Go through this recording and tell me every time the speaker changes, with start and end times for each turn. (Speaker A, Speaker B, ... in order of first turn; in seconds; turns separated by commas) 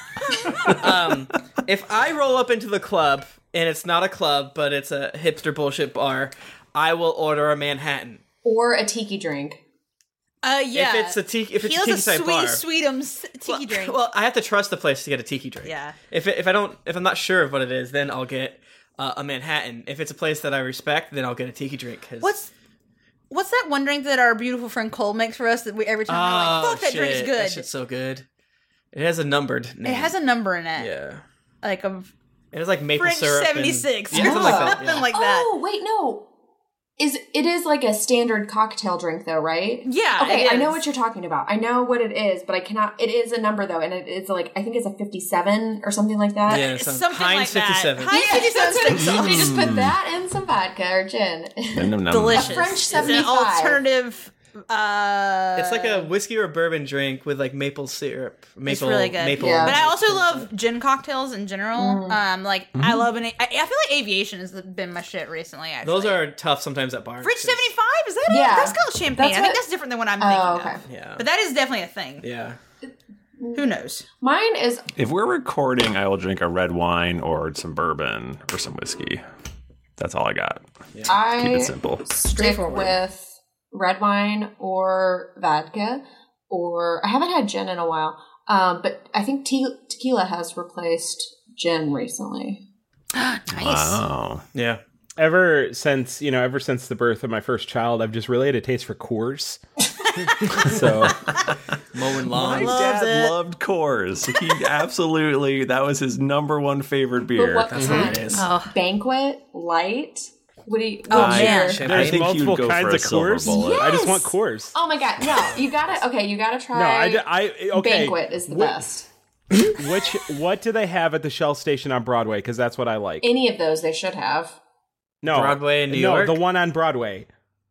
Speaker A: 0.7-8.2, Speaker B: 8.4-9.6, Speaker C: 10.4-14.0, Speaker A: 10.7-12.6, Speaker A: 13.5-22.4, Speaker C: 15.7-15.9, Speaker C: 22.2-22.5, Speaker C: 23.3-27.7, Speaker A: 26.1-28.2, Speaker A: 28.9-30.1, Speaker C: 29.9-30.9, Speaker A: 30.8-31.2, Speaker C: 31.6-32.1, Speaker A: 32.5-35.1, Speaker C: 33.0-35.5, Speaker B: 34.1-36.3, Speaker B: 37.0-46.7, Speaker C: 39.9-40.8, Speaker A: 46.5-48.2, Speaker C: 46.5-49.6, Speaker B: 48.1-53.8, Speaker D: 49.2-49.9, Speaker D: 51.7-53.0, Speaker C: 52.1-56.1, Speaker A: 55.6-60.5, Speaker C: 58.7-66.2, Speaker B: 59.4-59.8, Speaker B: 61.8-62.2, Speaker D: 62.8-63.1, Speaker A: 65.8-67.7, Speaker C: 67.2-72.2, Speaker B: 68.3-69.6, Speaker B: 70.2-70.8, Speaker A: 70.9-71.2, Speaker A: 72.2-72.6, Speaker B: 72.9-73.7, Speaker C: 73.5-74.0, Speaker B: 74.2-74.9, Speaker D: 75.0-79.2, Speaker D: 80.0-82.1, Speaker B: 81.1-92.6, Speaker C: 82.3-82.9, Speaker C: 93.1-94.0, Speaker D: 93.5-94.5, Speaker A: 94.5-94.8, Speaker E: 95.2-99.6, Speaker E: 100.5-101.2, Speaker D: 101.3-101.5, Speaker A: 101.9-102.8, Speaker D: 102.3-108.0, Speaker C: 102.5-103.4, Speaker B: 107.4-112.0, Speaker A: 107.7-108.5, Speaker E: 107.8-108.1, Speaker C: 108.3-108.8, Speaker C: 111.1-111.8, Speaker D: 111.1-113.9, Speaker A: 111.2-112.3, Speaker E: 111.8-114.7, Speaker B: 113.5-119.1, Speaker E: 116.7-118.8, Speaker E: 119.7-123.3, Speaker B: 123.2-124.6, Speaker E: 125.2-127.3, Speaker A: 125.3-126.4